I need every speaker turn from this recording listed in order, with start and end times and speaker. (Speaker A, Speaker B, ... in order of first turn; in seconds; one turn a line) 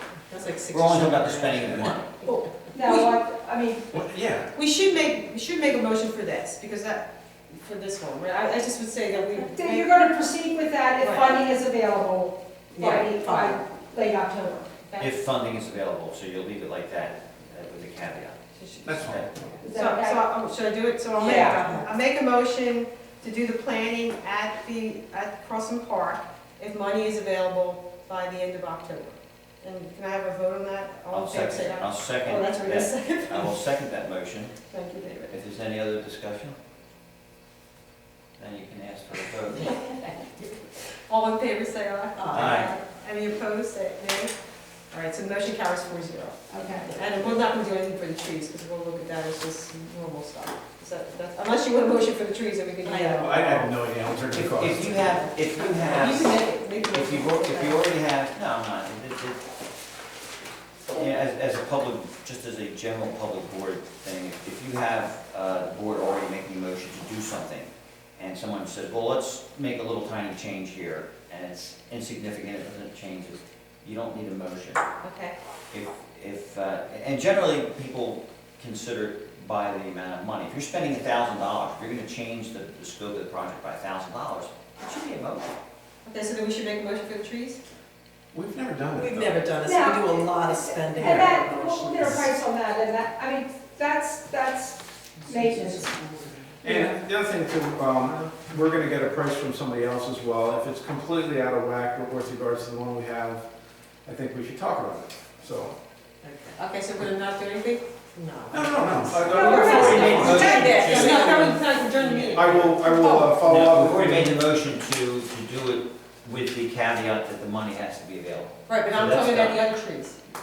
Speaker A: 0.3-2.2
Speaker B: 0.7-2.1
Speaker C: 2.2-3.9
Speaker D: 2.8-3.1
Speaker E: 3.9-4.5
Speaker D: 4.5-9.9
Speaker A: 9.2-9.5
Speaker C: 9.5-14.8
Speaker D: 11.0-11.5
Speaker A: 12.8-13.6
Speaker B: 15.0-19.3
Speaker D: 18.6-33.6
Speaker E: 18.8-19.3
Speaker C: 19.6-20.3
Speaker A: 21.2-21.9
Speaker C: 21.2-21.7
Speaker B: 31.1-34.5
Speaker D: 34.7-35.4
Speaker B: 35.3-36.6
Speaker B: 38.4-39.8
Speaker D: 39.6-40.5
Speaker A: 39.6-40.1
Speaker D: 41.1-44.3
Speaker A: 42.2-42.7
Speaker B: 42.3-42.7
Speaker D: 44.9-53.7
Speaker C: 46.5-46.9
Speaker A: 52.8-53.3
Speaker E: 53.1-55.2
Speaker B: 54.3-59.4
Speaker D: 55.6-57.9
Speaker B: 60.9-74.8
Speaker D: 75.0-75.4
Speaker B: 75.7-85.5
Speaker D: 86.0-87.6
Speaker E: 88.3-89.5
Speaker A: 88.9-92.4
Speaker C: 89.6-96.0
Speaker A: 95.2-96.7
Speaker E: 96.6-103.5
Speaker C: 96.7-96.9
Speaker A: 98.1-98.4
Speaker E: 104.1-105.8
Speaker A: 106.2-106.6
Speaker D: 106.6-107.8
Speaker A: 108.2-113.0
Speaker E: 108.5-111.3
Speaker C: 109.3-110.9
Speaker D: 109.3-113.3
Speaker B: 109.9-110.9
Speaker E: 112.3-114.4
Speaker B: 113.3-119.6
Speaker D: 118.7-120.2